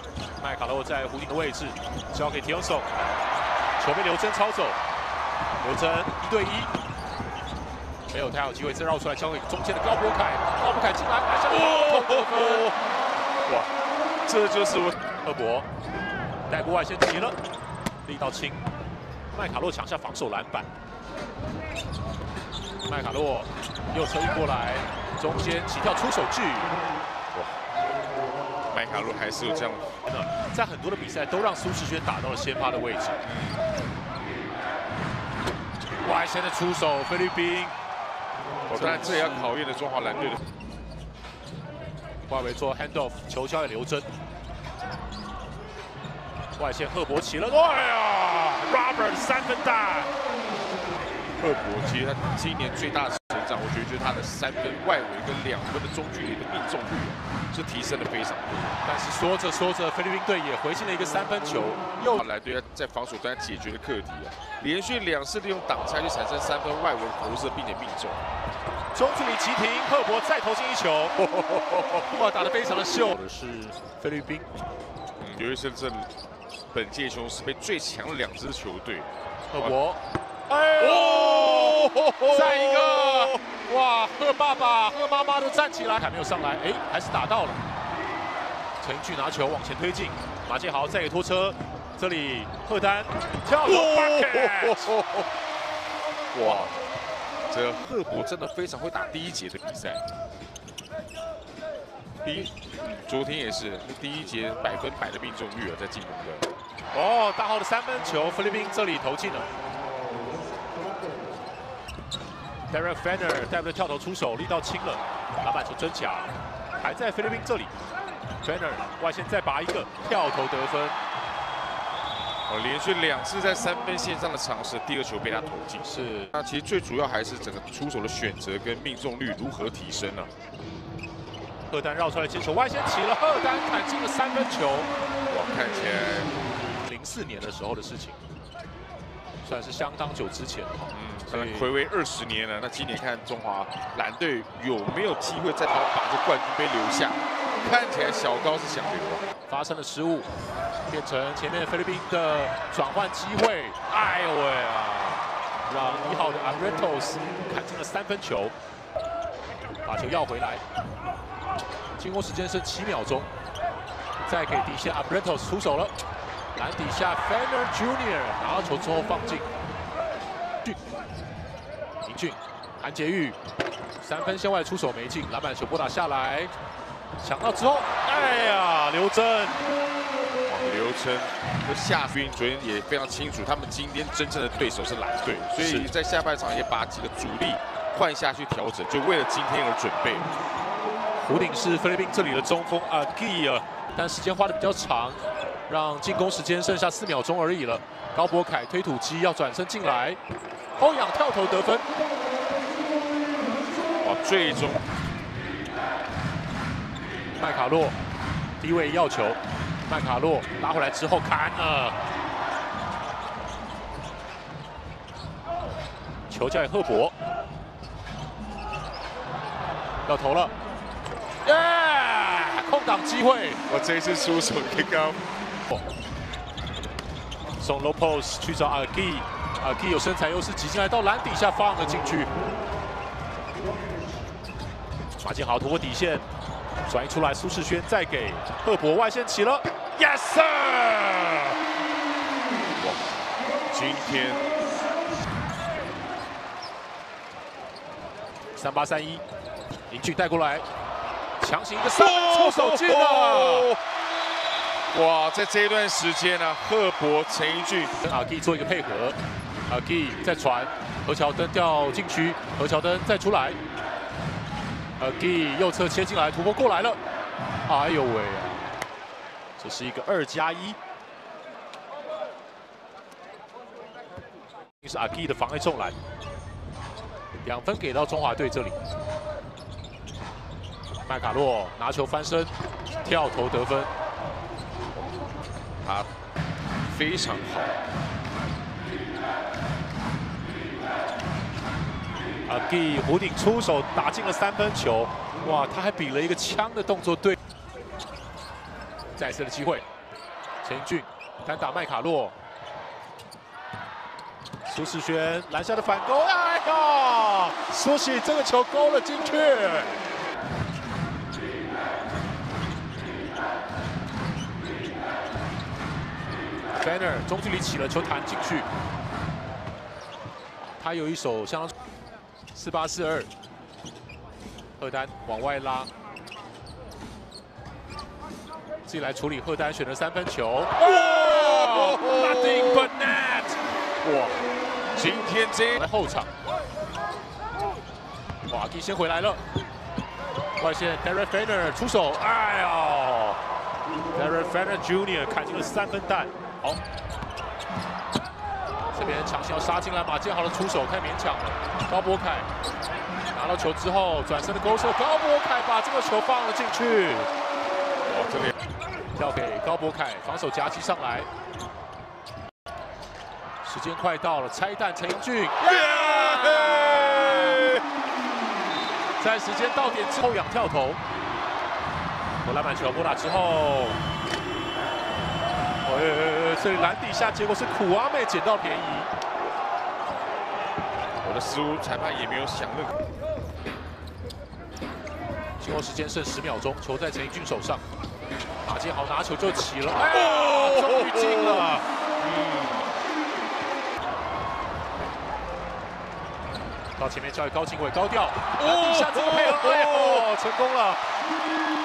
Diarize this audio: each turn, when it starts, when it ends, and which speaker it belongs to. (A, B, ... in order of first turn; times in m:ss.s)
0:00.4-0:02.9 A
0:03.8-0:04.8 A
0:05.6-0:06.7 A
0:08.1-0:12.7 A
0:11.5-0:12.7 B
0:14.2-0:15.0 B
0:15.2-0:15.7 A
0:16.5-0:17.4 A
0:18.0-0:18.6 A
0:19.3-0:20.7 A
0:22.8-0:26.8 A
0:28.7-0:29.9 B
0:30.1-0:33.2 A
0:33.2-0:33.6 B
0:36.0-0:37.7 A
0:38.7-0:40.4 B
0:38.7-0:39.5 A
0:42.3-0:44.1 A
0:46.6-0:50.1 A
0:51.4-0:58.8 B
0:58.8-1:02.2 A
1:02.1-1:08.2 B
1:08.9-1:14.5 A
1:15.2-1:16.1 B
1:16.7-1:19.8 B
1:19.5-1:27.6 A
1:20.7-1:23.4 B
1:28.8-1:34.9 A
1:33.6-1:35.3 B
1:36.3-1:36.8 B
1:37.5-1:40.0 B
1:42.2-1:46.5 B
1:46.9-1:49.5 A
1:52.7-1:57.7 A
1:58.4-2:01.0 A
2:02.5-2:10.3 B
2:05.8-2:06.3 A
2:11.7-2:14.9 A
2:15.3-2:16.4 B
2:16.8-2:18.2 A
2:19.4-2:21.7 A
2:20.9-2:29.2 B
2:29.5-2:30.3 A
2:30.9-2:38.5 A
2:39.8-2:40.6 A
2:42.0-2:43.3 A
2:44.2-2:45.9 A
2:46.6-2:49.5 A
2:52.0-2:53.4 A
2:54.0-2:56.5 A
2:57.2-2:59.6 A
3:00.4-3:10.3 B
3:05.6-3:05.9 A
3:11.2-3:20.2 A
3:20.8-3:21.9 A
3:24.0-3:24.8 B
3:27.4-3:28.0 A
3:28.6-3:32.0 A
3:36.3-3:37.1 A
3:40.0-3:40.5 A
3:41.4-3:43.6 A
3:43.7-3:45.2 B
3:47.6-3:52.3 A
3:55.2-3:56.3 A
3:56.8-4:01.6 A
4:02.8-4:03.2 B
4:03.7-4:04.5 B
4:08.6-4:09.2 A
4:09.9-4:10.6 A
4:11.4-4:13.7 A
4:12.0-4:13.8 B
4:14.9-4:18.0 B
4:18.0-4:19.2 A
4:19.7-4:23.6 A
4:25.0-4:27.0 A
4:27.6-4:28.7 A
4:29.6-4:30.8 A
4:34.8-4:36.0 A
4:37.4-4:38.8 A
4:41.0-4:43.9 A
4:45.8-4:46.1 B
4:46.8-4:47.8 B
4:52.5-4:57.4 A
4:59.2-4:59.8 A
5:00.6-5:02.4 A
5:04.6-5:10.0 A
5:16.8-5:18.7 A
5:20.7-5:21.7 A
5:22.5-5:23.3 A
5:24.8-5:25.9 A
5:28.8-5:34.3 A
5:30.8-5:32.9 B
5:34.9-5:35.8 B
5:35.7-5:36.3 A
5:38.5-5:39.4 A
5:40.6-5:43.4 A
5:44.1-5:46.8 A
5:48.9-5:52.5 A
5:53.3-5:57.3 A
5:58.0-5:58.6 B
5:59.1-6:01.3 A
6:03.6-6:07.7 A
6:05.6-6:07.8 B
6:09.2-6:11.0 A
6:12.4-6:14.0 A
6:15.8-6:19.1 A
6:21.2-6:23.0 B
6:25.6-6:27.8 A
6:28.6-6:31.8 A
6:30.1-6:32.9 B
6:37.0-6:41.0 A
6:38.6-6:40.3 B